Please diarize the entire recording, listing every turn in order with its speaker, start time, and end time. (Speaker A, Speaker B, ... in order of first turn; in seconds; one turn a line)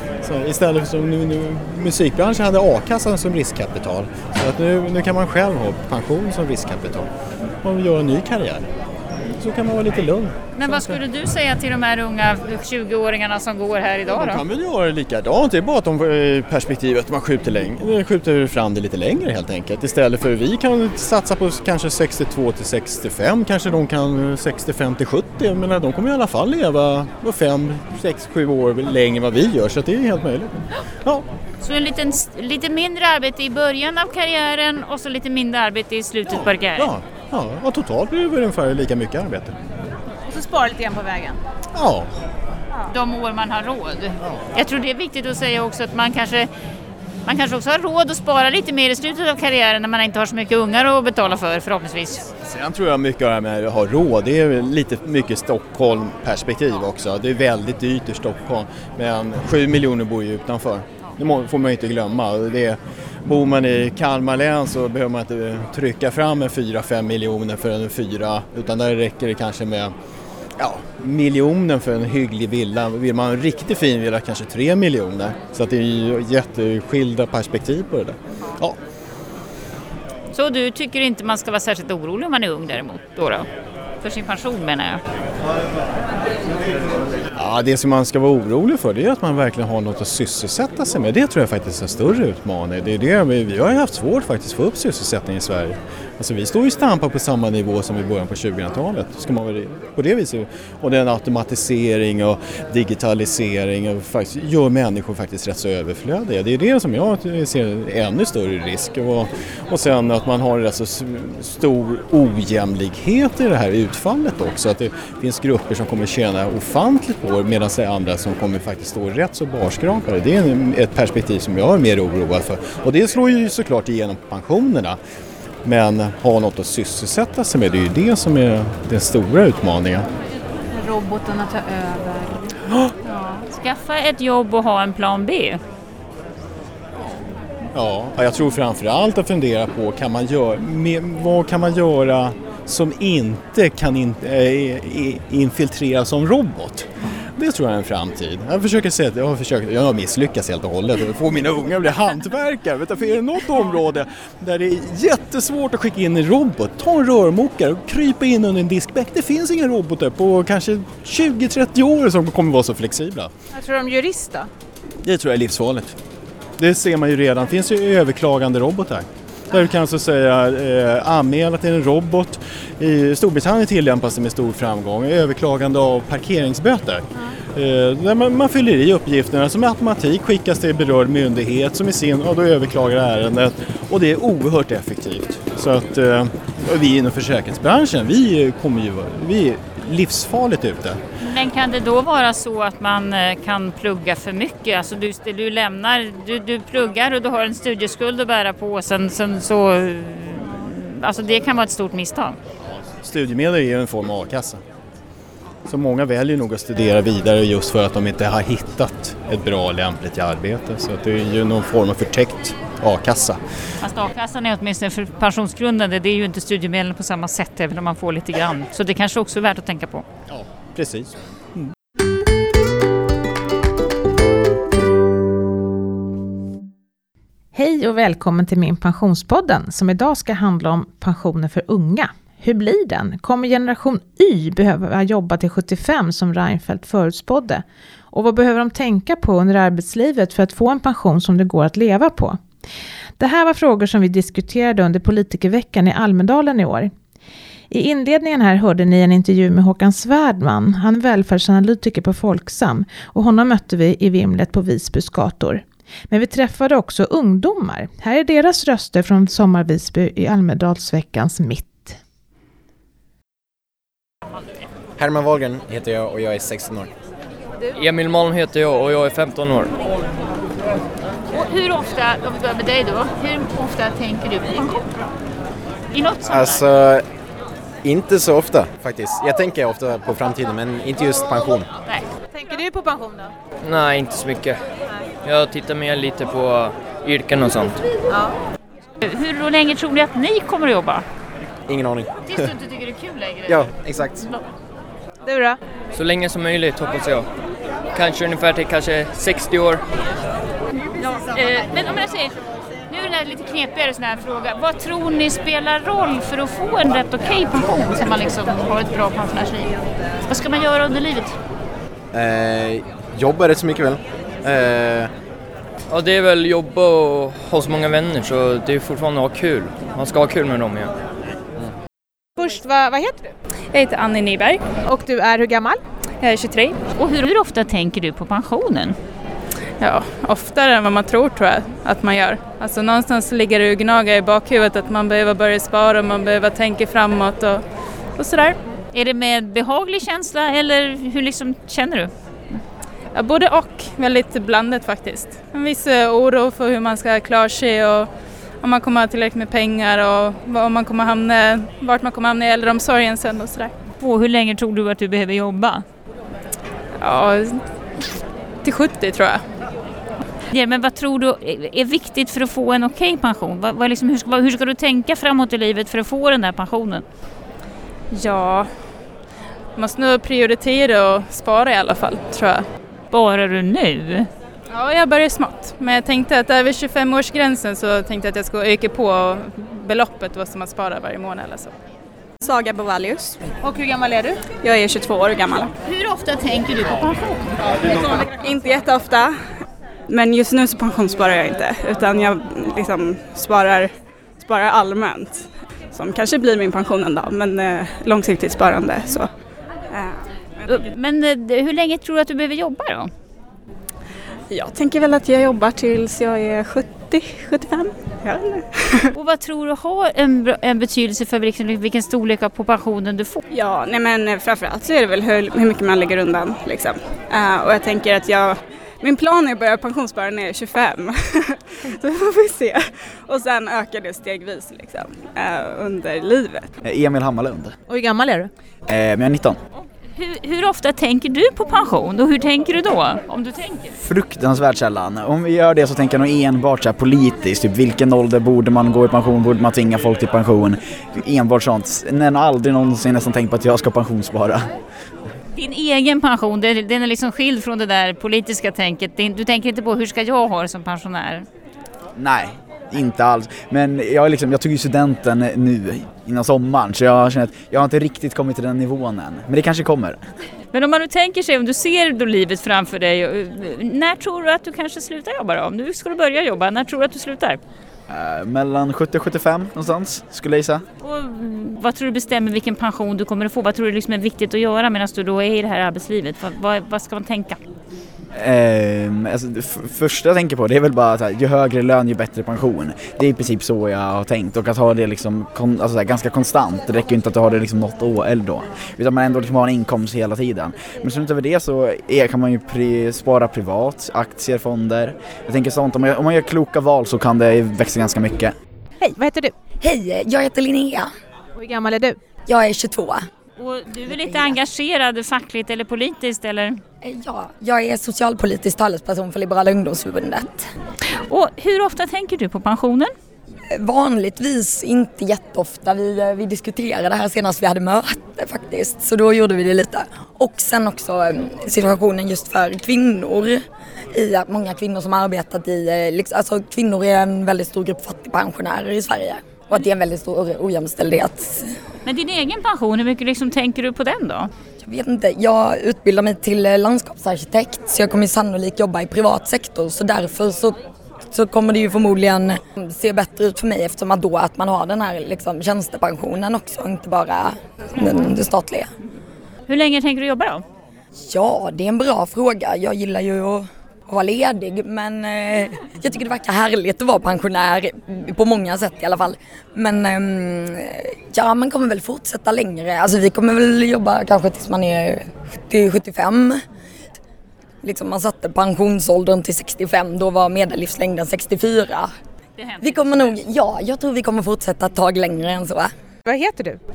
Speaker A: 0.2-7.1
Speaker A: 7.6-8.7
Speaker A: 9.2-11.0
Speaker B: 10.6-14.4
Speaker A: 14.1-31.3
Speaker B: 31.6-36.9
Speaker A: 36.3-39.5
Speaker A: 41.7-42.1
Speaker B: 42.9-46.5
Speaker A: 44.2-44.5
Speaker B: 47.3-52.3
Speaker A: 52.4-69.9
Speaker A: 70.6-78.8
Speaker B: 80.4-83.4
Speaker B: 84.0-85.0
Speaker A: 87.4-125.0
Speaker A: 125.6-130.1
Speaker B: 133.5-135.6
Speaker A: 137.7-163.3
Speaker C: 163.6-164.5
Speaker A: 165.0-166.0
Speaker A: 166.6-191.0
Speaker B: 191.3-202.4
Speaker A: 203.0-204.6
Speaker A: 205.7-213.4
Speaker B: 213.8-220.0
Speaker A: 220.3-221.2
Speaker C: 227.5-242.4
Speaker C: 243.2-246.9
Speaker C: 247.7-262.0
Speaker D: 265.0-266.9
Speaker E: 267.7-269.7
Speaker B: 271.5-274.6
Speaker B: 276.0-276.4
Speaker D: 276.3-277.1
Speaker D: 277.8-281.7
Speaker C: 282.4-283.3
Speaker E: 283.6-284.6
Speaker E: 285.2-287.8
Speaker B: 289.1-291.0
Speaker D: 291.7-292.5
Speaker B: 292.4-293.5
Speaker D: 293.5-294.3
Speaker C: 295.3-295.6
Speaker E: 295.9-297.3
Speaker E: 297.9-299.8
Speaker B: 301.4-302.2
Speaker B: 302.9-309.6
Speaker B: 310.3-311.2
Speaker D: 312.1-315.1
Speaker E: 315.9-320.9
Speaker C: 322.4-322.9
Speaker F: 323.7-324.6
Speaker C: 324.9-325.8
Speaker F: 326.2-326.8
Speaker B: 327.0-328.9
Speaker F: 329.8-337.6
Speaker F: 338.2-338.6
Speaker B: 338.9-342.1
Speaker F: 343.1-348.1
Speaker F: 348.6-353.7
Speaker B: 354.0-355.8
Speaker F: 357.0-357.6
Speaker F: 358.6-359.4
Speaker B: 360.5-367.0
Speaker F: 368.1-368.7
Speaker F: 369.8-372.7
Speaker B: 373.1-374.2
Speaker F: 374.7-381.7
Speaker G: 382.4-383.5
Speaker G: 384.5-385.7
Speaker B: 385.9-387.3
Speaker G: 388.2-389.5
Speaker G: 390.1-399.3
Speaker G: 399.9-400.2
Speaker B: 400.7-403.1
Speaker G: 404.5-409.1
Speaker B: 409.1-413.4
Speaker G: 413.5-426.8
Speaker H: 426.8-427.8
Speaker C: 427.9-428.5
Speaker H: 428.9-429.6
Speaker B: 430.2-433.9
Speaker H: 434.0-444.7
Speaker B: 445.6-451.4
Speaker H: 452.2-460.2
Speaker B: 460.7-467.6
Speaker H: 468.1-470.8
Speaker B: 471.0-477.6
Speaker H: 478.3-498.5
Speaker C: 499.0-499.5
Speaker I: 499.8-501.1
Speaker C: 501.6-502.2
Speaker I: 502.5-503.3
Speaker B: 503.6-506.8
Speaker I: 504.1-504.6
Speaker I: 507.0-510.7
Speaker B: 511.3-513.1
Speaker I: 513.8-531.8
Speaker B: 532.1-534.5
Speaker I: 534.8-540.8
Speaker I: 541.3-548.9
Speaker B: 549.7-550.6
Speaker I: 551.2-566.6
Speaker I: 567.8-572.1
Speaker B: 572.6-572.9
Speaker I: 572.8-575.9
Speaker C: 576.3-576.8